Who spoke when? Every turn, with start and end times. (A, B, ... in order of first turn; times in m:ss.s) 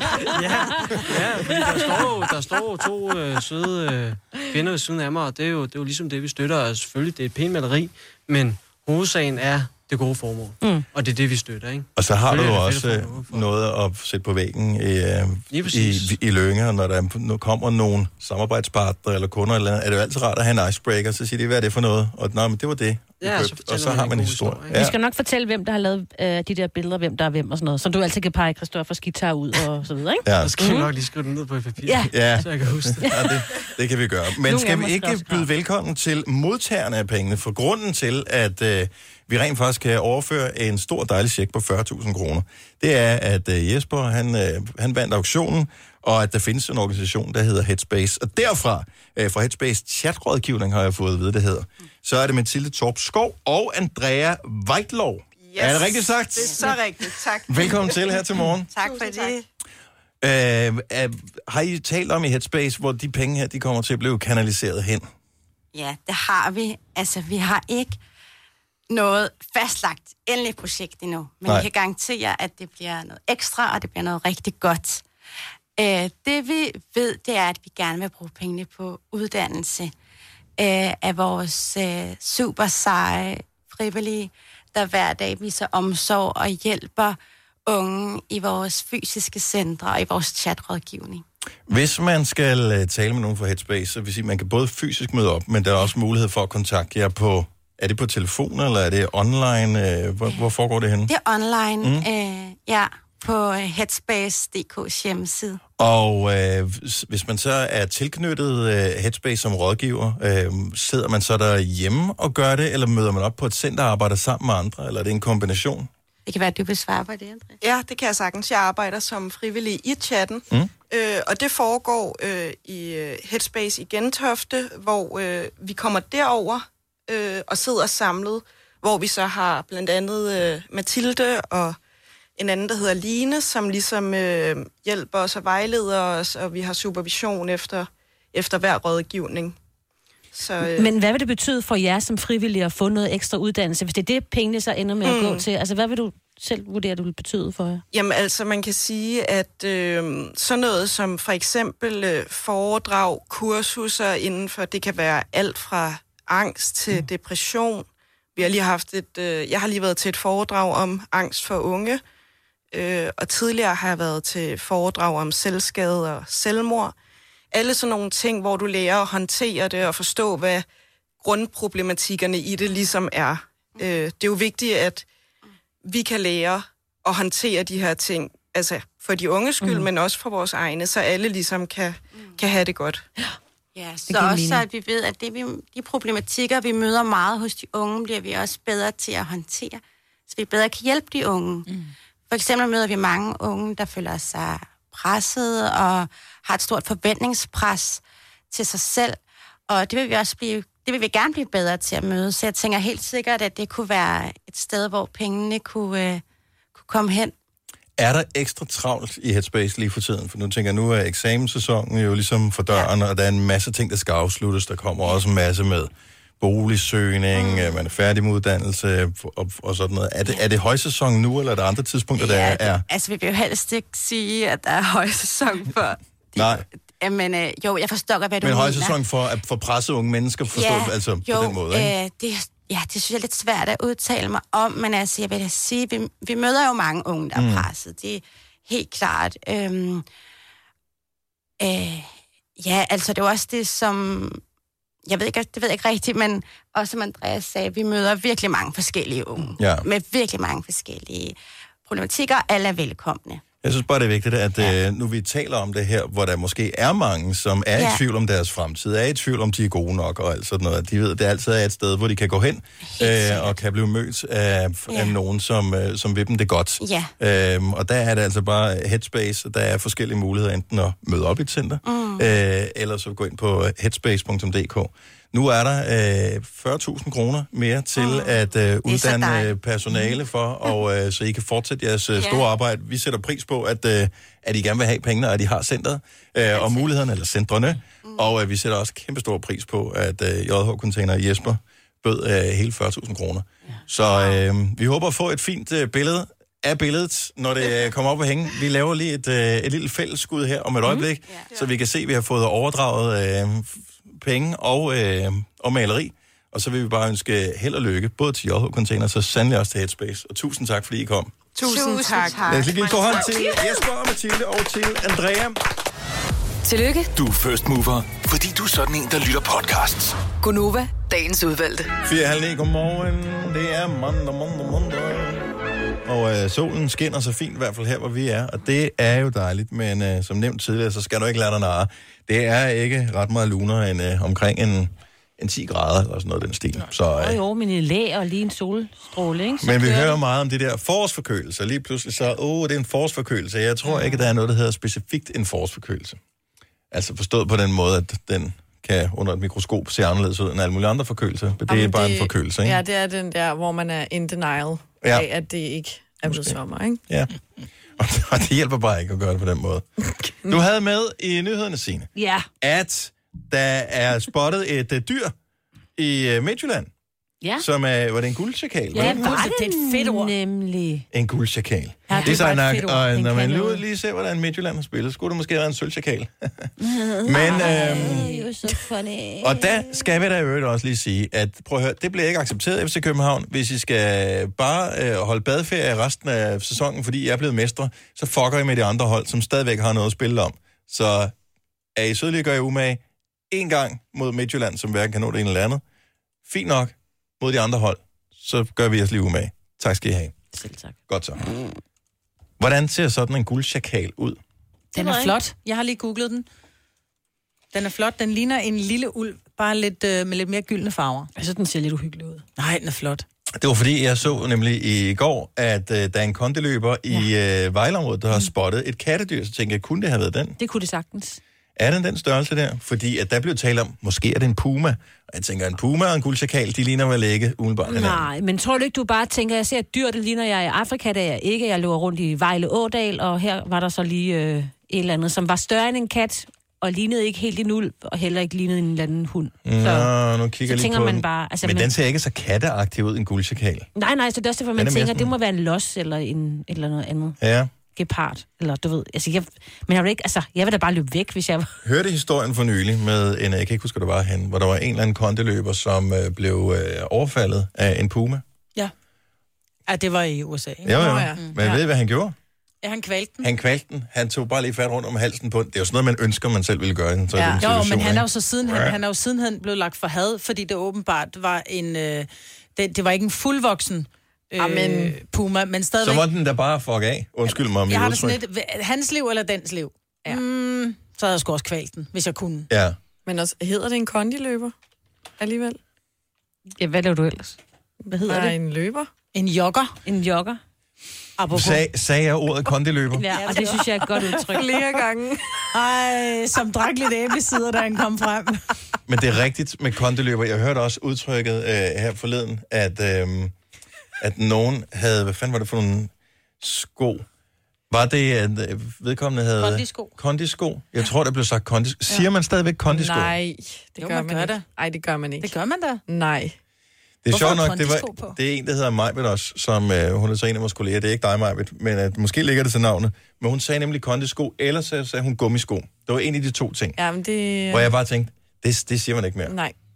0:00.2-0:13.5 A
0:10.6-0:10.9 B
0:12.0-0:25.0 C
0:15.5-0:16.2 A
0:23.2-0:24.8 A
0:24.7-0:30.9 B
0:30.2-0:30.6 C
0:30.3-0:33.3 A
0:31.8-0:32.1 B
0:32.1-0:56.7 C
0:33.0-0:33.4 B
0:34.4-0:35.5 B
0:55.4-0:57.8 D
0:57.5-0:58.7 C
0:58.7-0:59.4 E
0:58.8-0:59.3 D
1:00.2-1:05.1 C
1:05.7-1:08.0 E
1:08.9-1:15.0 E
1:15.8-1:19.9 E
1:20.6-1:31.2 E
1:31.7-1:41.1 C
1:41.1-1:45.6 E
1:41.8-1:42.1 C
1:45.8-1:55.9 C
1:56.2-1:57.6 E
1:57.6-2:11.8 D
2:12.4-2:19.6 D
2:20.3-2:20.9 D
2:20.7-2:27.8 B
2:25.0-2:25.4 D
2:27.9-2:42.0 D
2:42.7-2:46.9 D
2:47.5-2:50.6 D
2:51.2-2:55.0 D
2:55.8-3:03.0 D
2:59.6-2:59.9 B
3:03.7-3:11.7 E
3:04.1-3:04.6 B
3:12.3-3:26.2 E
3:26.7-3:27.3 E
3:28.0-3:42.8 C
3:37.3-3:37.8 E
3:42.2-3:49.0 E
3:46.4-3:46.6 C
3:48.4-3:51.9 C
3:50.5-4:00.0 E
3:57.3-3:57.7 C
4:01.6-4:04.4 E
4:05.0-4:13.4 E
4:09.6-4:09.9 C
4:13.6-5:11.4 C
4:17.8-4:18.0 E
4:22.8-4:23.6 E
4:24.9-4:25.2 E
4:26.8-4:27.1 E
4:31.8-4:32.3 E
4:38.0-4:39.5 E
4:42.2-4:42.5 E
4:46.5-4:46.9 E
4:48.0-4:48.3 E
4:53.7-4:54.4 E
5:01.3-5:01.6 E
5:11.6-5:13.2 D
5:11.6-5:13.6 E
5:12.5-5:15.6 C
5:16.6-5:17.1 F
5:17.1-5:20.2 G
5:20.4-5:21.9 F
5:22.0-5:25.5 C
5:26.0-5:37.4 C
5:37.1-5:40.2 B
5:39.6-5:46.2 C
5:46.9-5:52.8 C
5:51.7-5:57.0 H
5:56.3-5:57.3 C
5:58.0-5:59.8 C
6:00.5-6:02.1 C
6:02.2-6:02.5 B
6:02.6-6:05.3 C
6:06.0-6:06.9 C
6:07.6-6:09.4 C
6:08.9-6:10.3 I
6:08.9-6:11.0 B
6:11.1-6:16.7 C
6:12.1-6:13.1 I
6:12.1-6:13.8 B
6:16.8-6:20.1 B
6:17.2-6:18.3 C
6:19.4-6:31.3 C
6:32.0-6:35.8 C
6:36.4-6:40.3 C
6:40.5-6:41.0 B
6:41.1-6:41.4 C
6:42.6-6:44.4 C
6:44.9-6:45.4 B
6:44.9-6:46.4 I
6:47.7-6:51.3 I
6:51.4-6:52.4 B
6:52.6-6:53.2 I
6:53.6-7:00.6 C
7:00.6-7:01.4 B
7:01.8-7:08.3 C
7:07.8-7:20.1 B
7:19.6-7:23.9 C
7:20.6-7:21.9 B
7:23.9-7:27.4 B
7:24.7-7:25.3 C
7:27.4-7:27.7 C
7:27.9-7:31.8 B
7:31.8-7:38.4 C
7:39.9-7:41.5 I
7:40.8-7:42.3 C
7:40.9-7:41.8 H
7:42.8-7:43.5 I
7:43.4-7:49.0 C
7:47.3-7:47.6 H
7:47.6-7:56.2 I
7:54.6-7:55.2 H
7:56.0-7:58.4 C
7:57.9-8:02.7 I
8:02.7-8:03.0 C
8:03.2-8:04.7 H
8:05.4-8:05.8 H
8:06.8-8:08.6 B
8:08.2-8:09.1 H
8:09.3-8:10.0 I
8:10.0-8:10.6 B
8:11.4-8:11.8 I
8:11.5-8:13.2 C
8:13.1-8:14.8 B
8:13.3-8:14.8 I
8:14.5-8:15.6 H
8:15.7-8:18.6 I
8:19.1-8:23.5 C
8:24.2-8:27.2 C
8:27.9-8:33.4 C
8:29.6-8:30.1 I
8:32.9-8:35.5 H
8:34.0-8:34.6 I
8:35.4-8:36.0 I
8:36.1-8:36.6 H
8:37.2-8:47.0 C
8:37.3-8:38.4 I
8:47.0-8:47.9 H
8:47.7-8:49.5 C
8:49.4-8:49.7 H